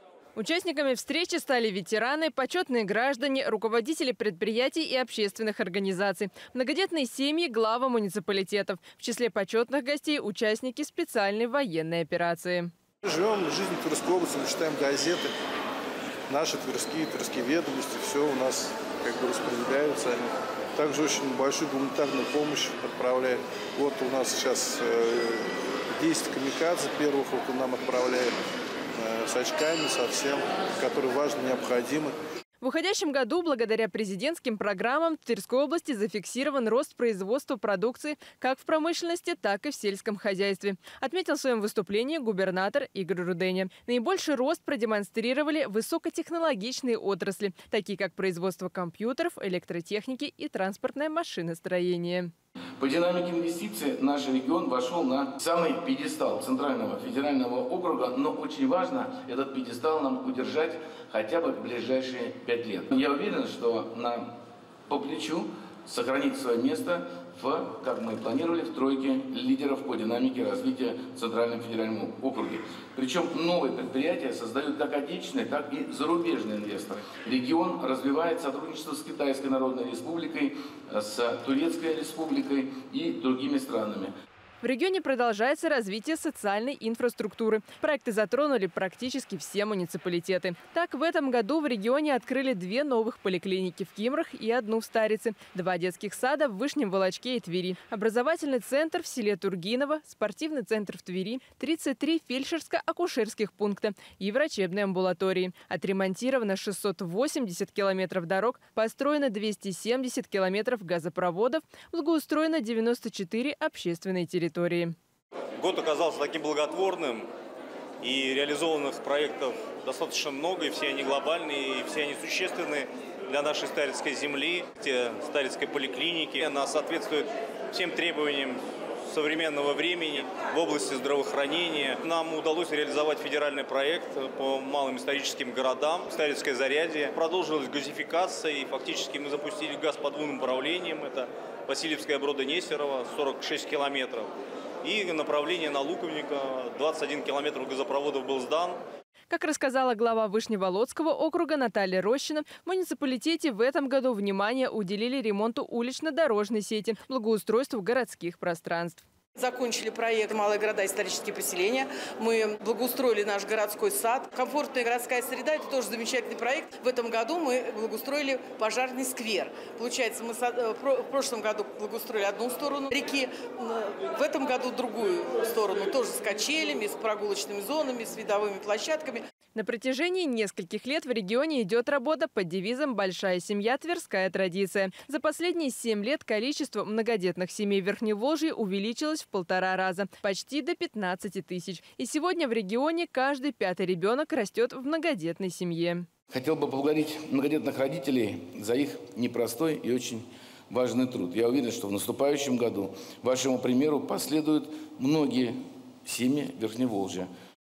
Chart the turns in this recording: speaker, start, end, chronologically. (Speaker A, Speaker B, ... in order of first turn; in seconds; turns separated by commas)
Speaker A: 0.3-12.7, Speaker B: 13.0-15.3, Speaker B: 16.3-28.3, Speaker B: 28.9-32.1, Speaker A: 32.6-52.3, Speaker C: 52.8-64.3, Speaker C: 64.9-84.1, Speaker A: 84.6-115.0, Speaker D: 115.6-117.3, Speaker D: 118.0-144.3, Speaker D: 144.8-148.8, Speaker A: 149.3-159.0, Speaker E: 159.3-179.3, Speaker A: 179.5-196.1, Speaker C: 196.3-207.3